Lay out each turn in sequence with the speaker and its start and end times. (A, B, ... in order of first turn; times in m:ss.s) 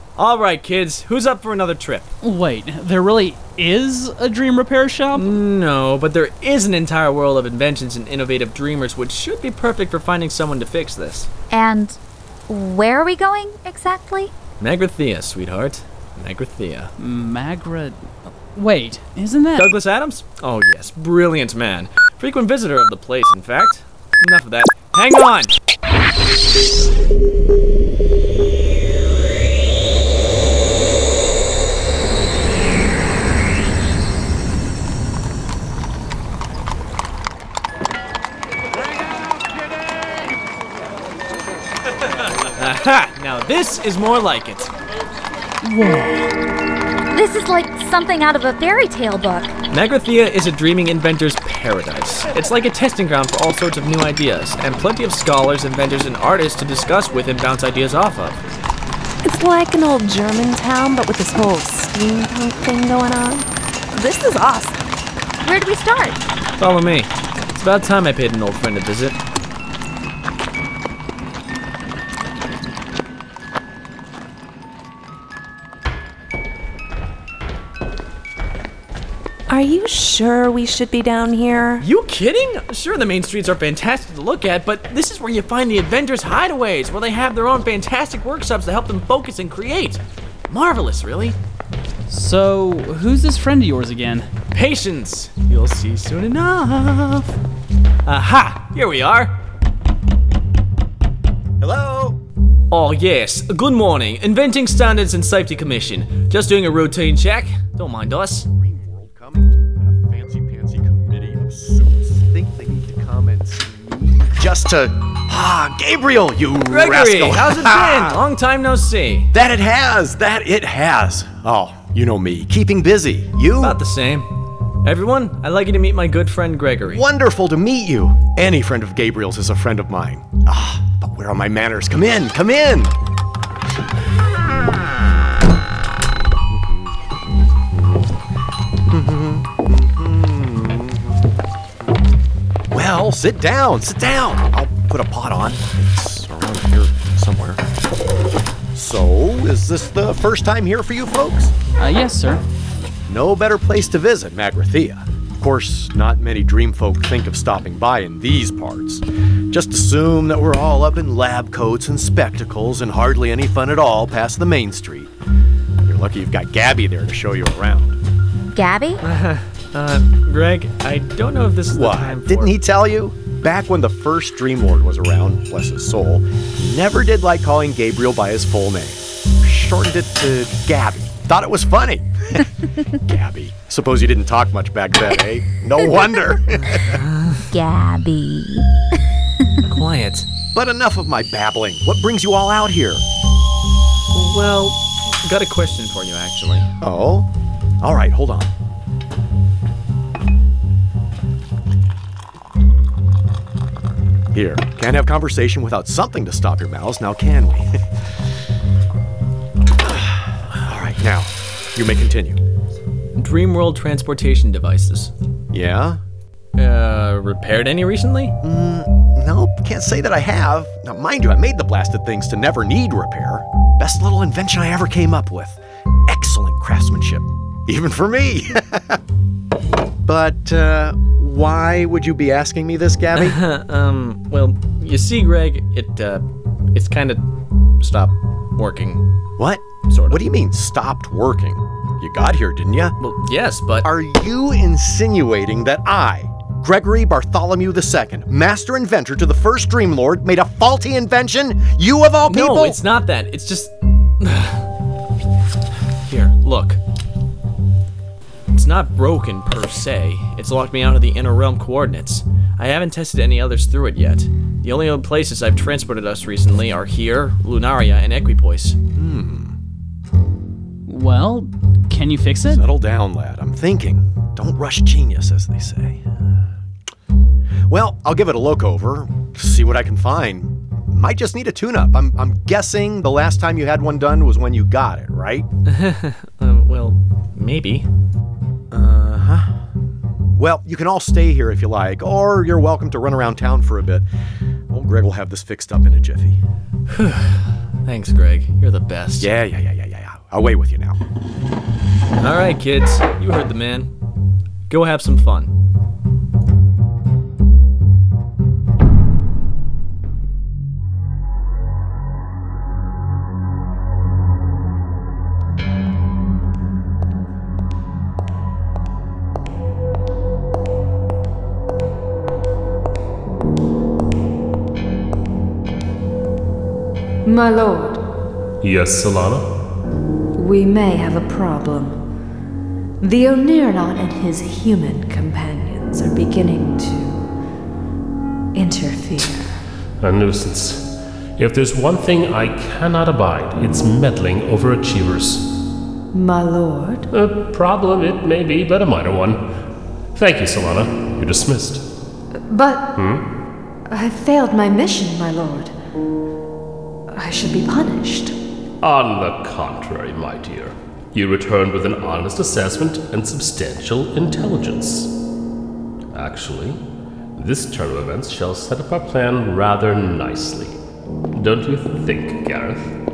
0:00.2-0:02.1 A
0:02.2-0:05.4 B
0:05.1-0:11.3 A
0:11.5-0:14.3 C
0:14.6-0:16.9 A
0:17.0-0:19.7 B
0:19.6-0:25.5 A
0:42.6-0:44.7 A
0:45.6-0:46.3 B
0:47.1-0:49.5 C
0:49.7-0:58.4 A
0:59.2-1:04.8 D
1:05.4-1:06.2 C
1:06.6-1:09.2 A
1:19.5-1:21.8 D
1:21.8-1:31.4 A
1:32.1-1:34.3 B
1:34.5-1:37.3 A
1:38.0-1:39.3 A
1:41.6-1:42.2 E
1:42.7-1:48.5 A
1:48.5-1:58.2 E
1:56.7-1:59.3 A
1:59.3-2:03.8 E
2:03.6-2:04.3 A
2:04.8-2:07.0 A
2:06.9-2:12.9 E
2:18.9-2:21.2 E
2:22.7-2:27.6 E
2:28.7-2:31.5 E
2:31.8-2:32.4 B
2:33.1-2:45.1 E
2:45.8-2:48.0 E
2:48.5-2:49.0 C
2:49.0-2:52.6 A
2:51.7-3:07.0 E
3:06.7-3:07.4 A
3:07.5-3:08.7 C
3:09.7-3:10.3 A
3:10.5-3:13.0 E
3:14.1-3:16.7 A
3:16.8-3:17.3 E
3:17.8-3:18.5 E
3:24.3-3:27.8 E
3:29.9-3:32.4 E
3:33.2-3:35.1 A
3:35.5-3:36.0 E
3:36.6-3:38.4 A
3:38.4-3:49.0 E
3:50.0-3:53.4 E
3:53.2-3:57.2 A
3:57.8-3:59.0 A
3:59.4-4:03.0 E
3:59.9-4:00.2 A
4:03.0-4:03.9 A
4:03.8-4:12.8 E
4:12.3-4:14.6 A
4:16.1-4:16.8 A
4:18.5-4:28.8 A
4:28.9-4:29.5 E
4:30.9-4:32.6 B
4:32.4-4:36.0 E
4:37.7-4:45.5 E
4:45.6-4:47.9 A
4:48.7-4:49.5 E
4:50.3-4:54.0 E
4:54.7-4:56.4 E
4:56.9-4:59.3 A
4:59.2-5:01.0 E
5:02.2-5:03.9 A
5:04.7-5:05.5 A
5:27.2-5:28.0 F
5:28.6-5:29.5 G
5:30.3-5:32.0 F
5:33.0-5:37.3 F
5:38.5-5:39.4 F
5:40.0-5:45.4 G
5:46.1-5:47.1 F
5:47.1-5:49.5 G
5:50.1-5:51.8 G
5:52.5-5:52.9 F
5:53.0-5:53.2 G
5:53.9-5:55.8 F
5:57.1-5:58.4 F
5:58.8-6:05.1 G
6:06.1-6:06.8 G
6:07.4-6:10.7 G
6:11.3-6:12.9 G